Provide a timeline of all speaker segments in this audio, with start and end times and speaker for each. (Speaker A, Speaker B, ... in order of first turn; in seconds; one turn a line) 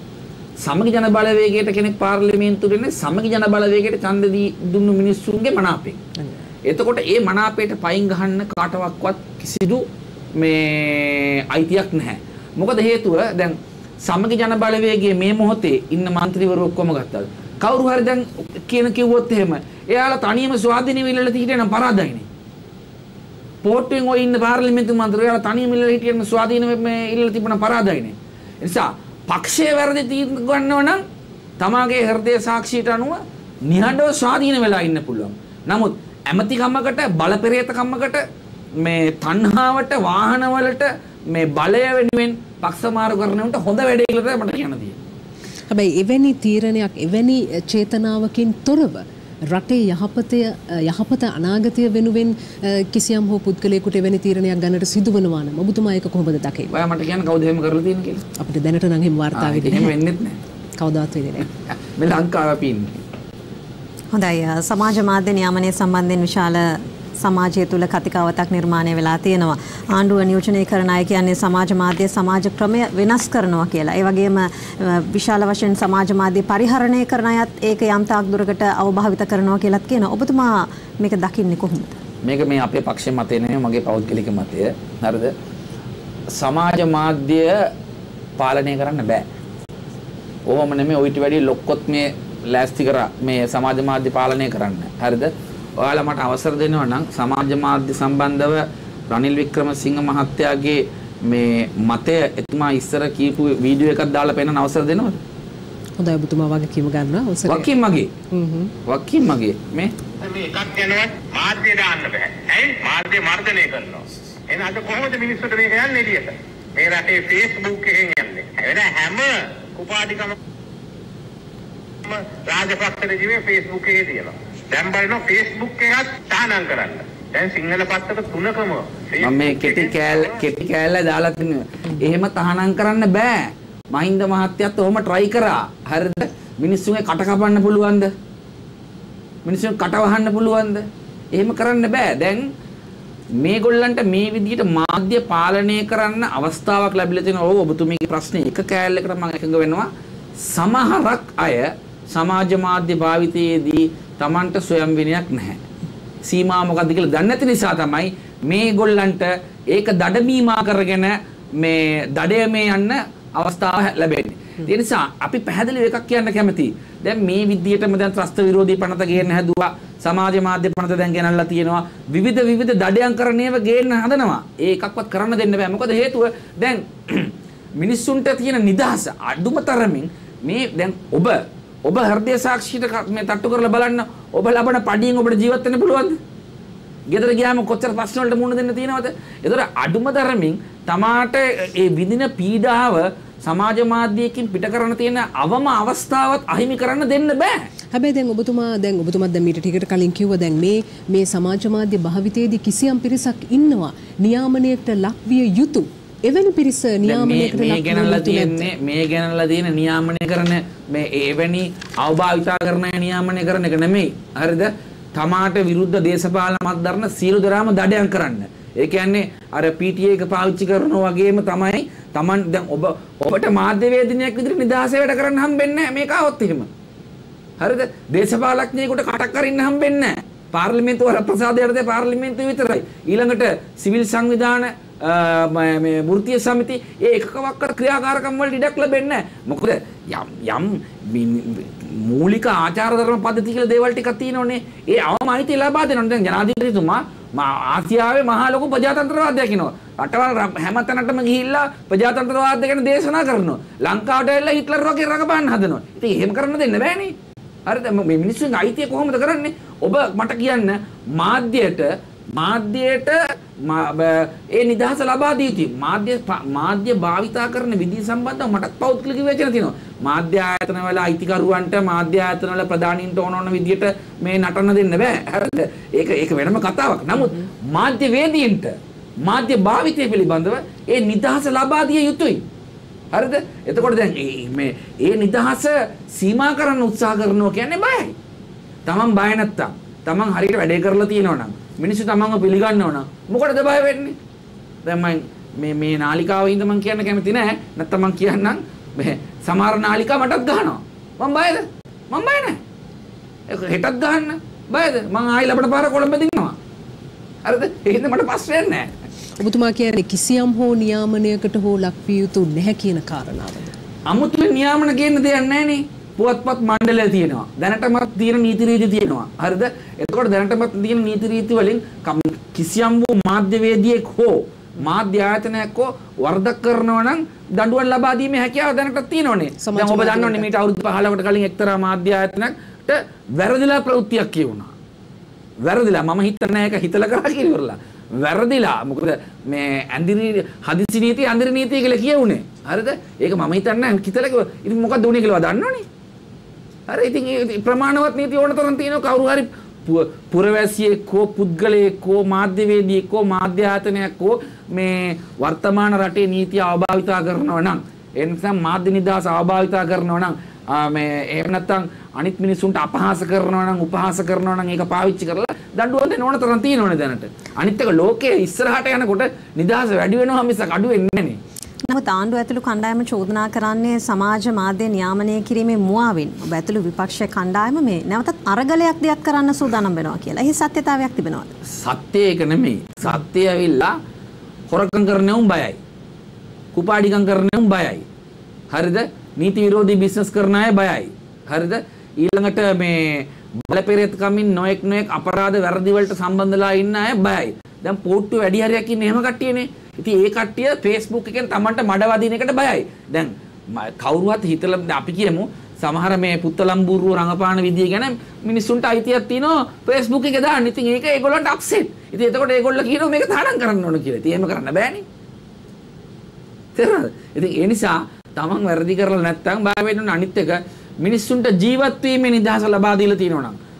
Speaker A: 0.6-6.0
Speaker B: 6.2-6.4
Speaker A: 6.6-22.3
Speaker A: 23.6-31.0
Speaker A: 31.6-38.2
Speaker A: 38.8-45.0
Speaker B: 45.7-56.7
Speaker A: 56.7-58.2
Speaker B: 58.4-60.0
Speaker A: 59.3-60.4
Speaker B: 60.8-61.5
Speaker A: 62.0-63.0
Speaker C: 64.1-82.0
Speaker A: 82.2-85.3
Speaker A: 86.3-87.6
Speaker A: 88.4-89.2
Speaker A: 90.5-105.2
Speaker B: 106.0-107.7
Speaker A: 107.5-108.1
Speaker B: 108.3-108.7
Speaker A: 108.8-109.9
Speaker D: 110.2-120.3
Speaker D: 122.0-130.4
Speaker A: 129.2-138.1
Speaker A: 139.4-142.5
Speaker A: 143.4-149.9
Speaker A: 150.4-155.6
Speaker A: 156.2-186.2
Speaker A: 187.1-197.7
Speaker B: 197.9-208.7
Speaker A: 207.0-226.7
Speaker A: 227.6-282.4
Speaker A: 283.1-288.1
Speaker A: 288.9-294.1
Speaker A: 294.8-302.6
Speaker A: 303.5-306.6
Speaker A: 307.4-308.9
Speaker B: 309.4-313.7
Speaker A: 314.1-334.7
Speaker B: 329.6-330.5
Speaker A: 335.6-345.9
Speaker A: 346.9-371.4
Speaker C: 371.9-381.5
Speaker A: 381.7-383.9
Speaker A: 384.7-385.8
Speaker A: 386.7-388.0
Speaker A: 388.7-415.1
Speaker A: 416.7-423.6